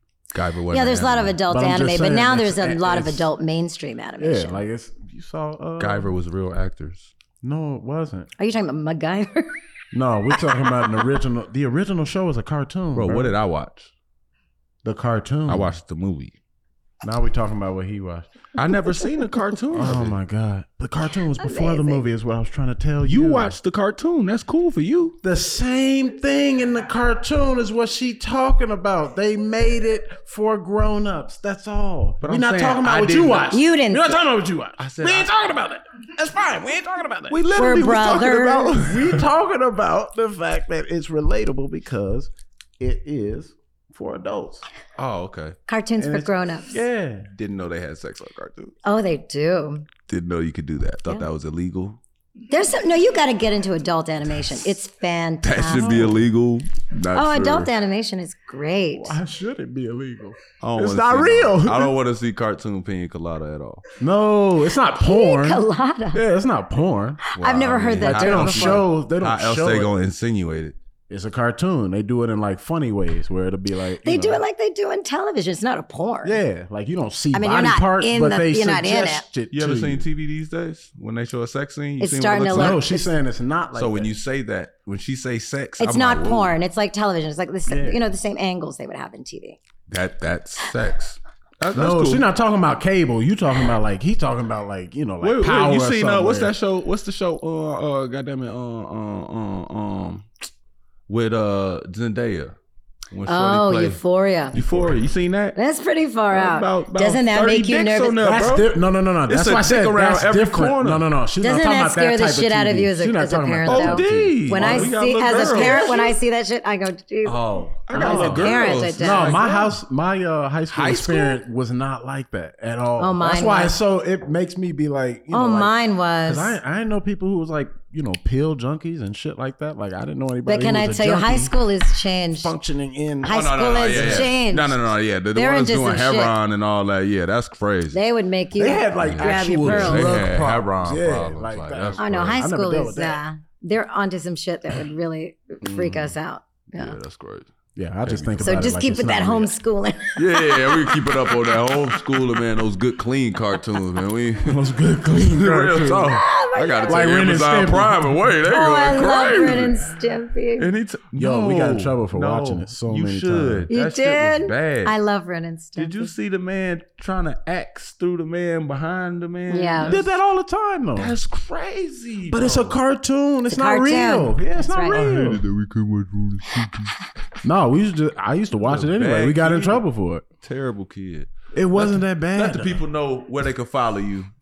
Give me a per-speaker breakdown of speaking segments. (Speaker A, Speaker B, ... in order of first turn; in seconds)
Speaker A: 0.3-1.4, 5.8-7.1, 12.9-13.9, 15.5-16.4, 18.5-20.1, 23.0-25.2, 32.2-33.5, 34.8-35.3, 37.3-39.2, 45.0-45.6, 47.3-48.7, 50.1-52.0, 55.4-57.7, 60.6-63.8, 67.3-70.7, 79.5-82.8, 83.7-86.5, 89.9-92.2, 95.2-100.4, 101.1-102.5, 103.1-104.0, 104.5-105.6, 106.3-108.7, 109.3-111.0, 113.7-116.1, 117.9-119.7, 120.7-121.4, 133.2-138.0, 139.0-142.4, 145.7-146.1, 146.7-148.6, 150.2-159.9, 160.6-165.0, 165.8-170.1, 170.9-172.8, 174.9-177.1, 178.7-179.8, 180.4-184.3
Speaker B: 0.7-4.6, 8.4-9.5, 21.4-22.1, 33.5-34.2, 37.5-38.8, 45.7-46.8, 48.8-49.9, 52.5-56.2, 57.1-59.2, 65.0-66.2, 67.2-68.8, 74.0-76.4, 77.3-79.2, 82.0-83.1, 85.8-89.6, 103.3-104.6, 105.5-108.2, 111.4-117.4, 117.9-119.4, 123.0-123.8, 125.3-126.5, 130.4-132.5, 133.2-136.3, 137.9-140.3, 142.0-147.0, 148.4-151.3, 156.1-157.1, 158.4-160.7, 163.7-166.1, 169.5-170.0, 173.5-175.0
Speaker C: 1.5-3.3, 4.2-6.1, 7.4-8.3, 9.9-13.4, 14.8-15.7, 17.0-18.3, 19.7-23.6, 25.2-44.6, 46.0-47.3, 55.7-56.2, 58.9-61.9, 64.0-67.2, 68.0-69.9, 71.1-74.4, 76.2-80.0, 82.4-84.1, 87.7-88.0, 91.7-96.5, 108.2-116.0, 117.2-125.7, 126.2-131.5, 132.3-134.3, 138.6-143.2, 147.7-149.5, 154.4-156.2, 156.8-158.3, 161.2-163.7, 169.8-171.2, 172.3-175.4, 177.4-180.2, 181.5-182.8